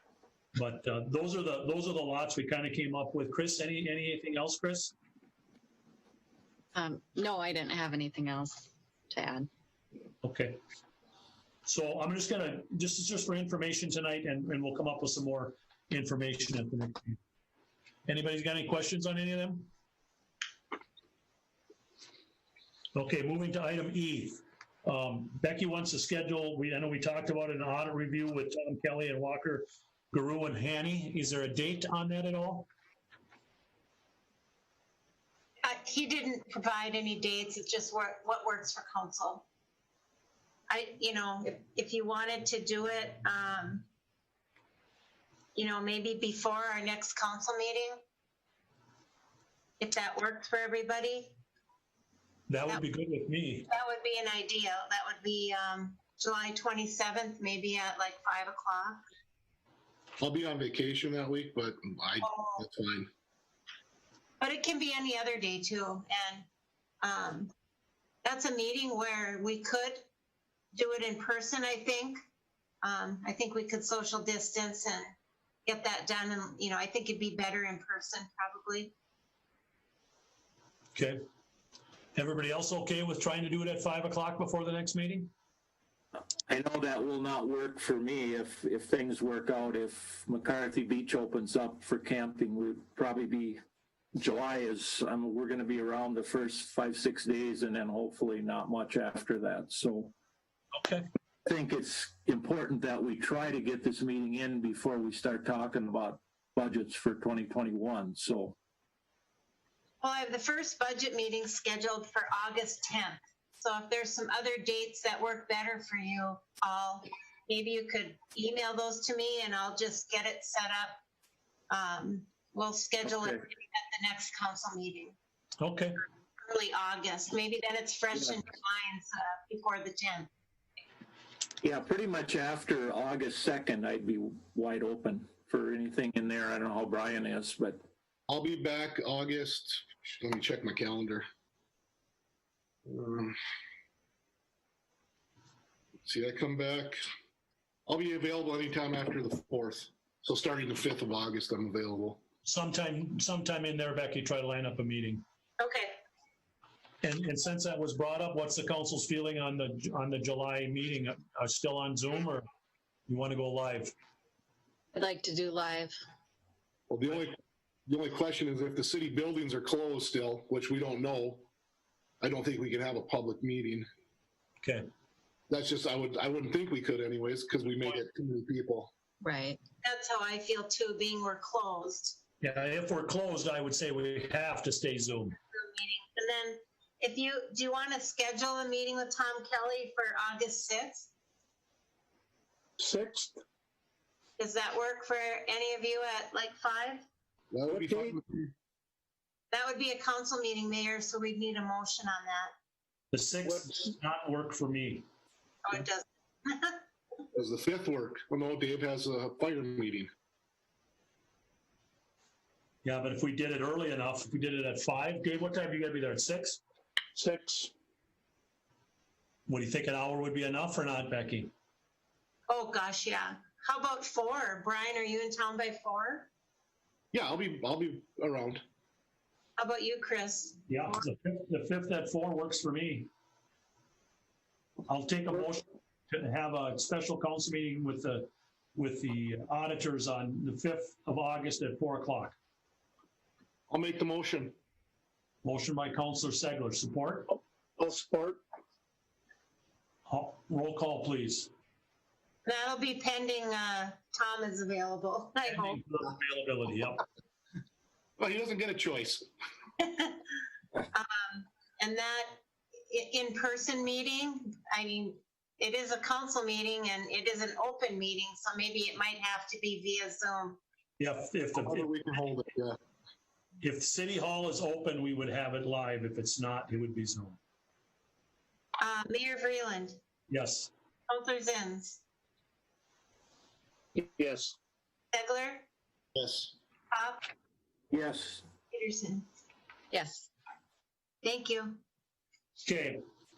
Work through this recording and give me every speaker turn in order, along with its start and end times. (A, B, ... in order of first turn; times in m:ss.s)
0:00.6-0:04.9 A
0:06.8-0:09.5 B
0:10.2-0:10.6 A
0:11.6-0:17.2 A
0:18.0-0:19.7 A
0:23.0-0:32.7 A
0:35.6-0:39.4 C
0:40.7-0:43.8 C
0:45.6-0:48.0 C
0:49.8-0:51.3 C
0:52.5-0:53.7 A
0:53.7-0:59.0 C
1:00.2-1:03.1 D
1:02.2-1:02.6 C
1:04.4-1:06.5 C
1:07.0-1:07.5 C
1:08.2-1:10.0 C
1:10.7-1:12.2 C
1:12.8-1:15.1 C
1:15.7-1:18.9 C
1:20.9-1:21.2 A
1:22.1-1:25.3 A
1:26.5-1:33.6 E
1:34.1-1:40.1 E
1:40.8-1:41.0 A
1:41.4-1:48.6 E
1:50.0-2:01.0 C
2:01.7-2:05.1 C
2:05.6-2:06.0 A
2:06.4-2:10.3 C
2:11.6-2:17.8 E
2:18.3-2:21.3 D
2:22.9-2:23.4 D
2:26.0-2:27.0 D
2:27.9-2:32.2 D
2:32.4-2:35.2 A
2:35.6-2:36.0 C
2:37.0-2:42.4 A
2:43.1-2:43.9 A
2:44.9-2:46.0 B
2:46.9-2:51.5 D
2:52.2-2:53.9 D
2:54.6-2:54.9 A
2:55.5-2:58.9 D
2:59.2-2:59.6 B
2:59.8-3:02.2 C
3:02.4-3:05.4 A
3:05.5-3:11.1 C
3:12.8-3:13.4 F
3:14.4-3:17.0 C
3:17.5-3:18.4 D
3:17.7-3:18.2 F
3:19.5-3:22.5 C
3:23.1-3:25.0 A
3:25.6-3:26.8 C
3:27.3-3:30.1 D
3:32.8-3:36.6 A
3:37.2-3:37.7 F
3:39.5-3:41.5 A
3:42.5-3:46.3 C
3:47.1-3:48.6 D
3:49.6-3:51.0 C
3:50.7-3:53.1 A
3:54.9-4:02.4 A
4:03.7-4:04.6 D
4:05.4-4:07.3 A
4:07.8-4:08.4 F
4:10.1-4:11.5 A
4:12.5-4:15.8 C
4:15.4-4:17.0 A
4:18.2-4:19.3 D
4:19.8-4:20.2 C
4:20.9-4:30.6 C
4:31.0-4:31.9 A
4:31.6-4:32.8 D
4:33.6-4:37.4 A
4:38.8-4:40.0 C
4:40.3-4:40.7 A
4:41.1-4:42.0 C
4:44.0-4:44.6 F
4:45.1-4:45.7 C
4:46.2-4:46.5 D
4:46.9-4:47.2 C
4:47.9-4:48.4 E
4:48.7-4:49.2 C
4:49.9-4:50.3 B
4:51.2-4:51.8 C
4:52.6-4:53.0 A